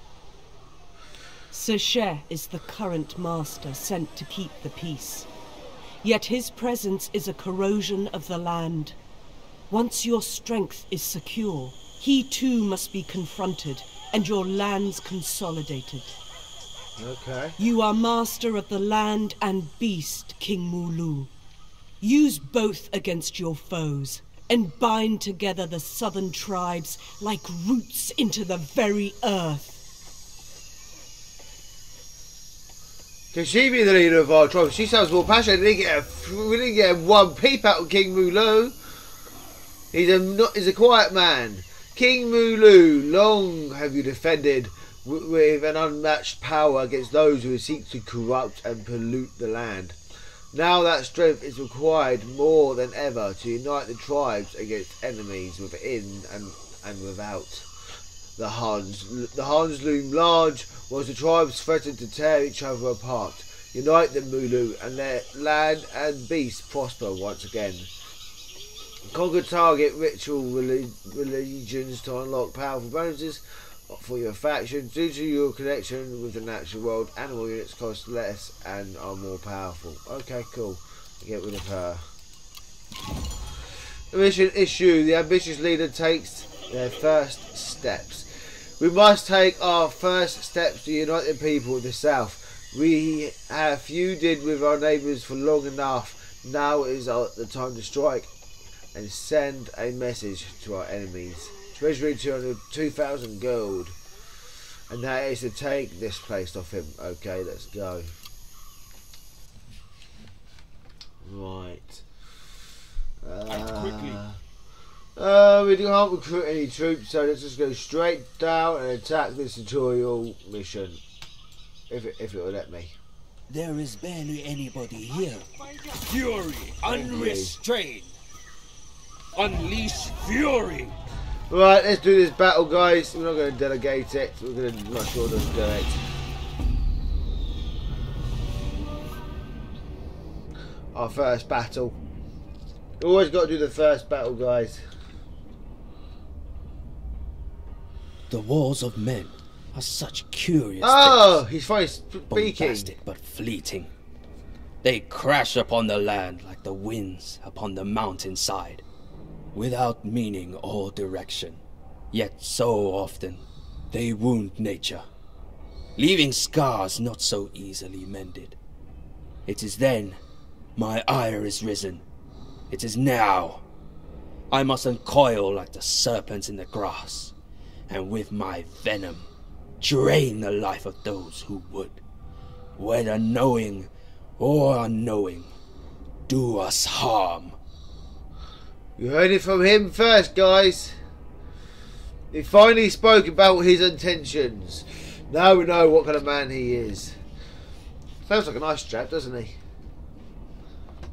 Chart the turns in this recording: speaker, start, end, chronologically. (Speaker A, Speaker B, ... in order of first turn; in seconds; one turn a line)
Speaker A: 1.5-5.3
Speaker A: 6.0-9.0
Speaker A: 9.7-16.2
Speaker B: 17.0-17.6
Speaker A: 17.6-21.3
Speaker A: 22.0-29.8
Speaker B: 33.3-38.8
Speaker B: 39.9-50.0
Speaker B: 50.5-57.7
Speaker B: 58.4-67.9
Speaker B: 69.1-82.0
Speaker B: 84.1-88.3
Speaker B: 88.8-98.3
Speaker B: 98.9-104.0
Speaker B: 104.9-108.1
Speaker B: 111.2-112.0
Speaker B: 113.2-114.4
Speaker C: 113.5-114.2
Speaker B: 115.2-121.0
Speaker B: 121.9-123.0
Speaker C: 123.5-128.1
Speaker B: 126.8-127.6
Speaker C: 129.4-130.9
Speaker B: 131.5-136.0
Speaker B: 140.9-142.0
Speaker B: 143.0-144.8
Speaker C: 148.3-151.4
Speaker B: 150.8-152.9
Speaker C: 152.3-153.9
Speaker C: 154.8-158.8
Speaker C: 159.5-161.6
Speaker C: 162.1-165.1
Speaker C: 166.0-168.6
Speaker C: 169.5-170.2
Speaker C: 170.8-172.0
Speaker C: 172.7-173.6
Speaker C: 174.5-177.3
Speaker C: 177.9-179.3
Speaker C: 179.8-182.0
Speaker C: 182.8-185.5
Speaker C: 186.3-187.6
Speaker B: 189.0-191.0
Speaker B: 192.3-197.2
Speaker B: 198.3-199.6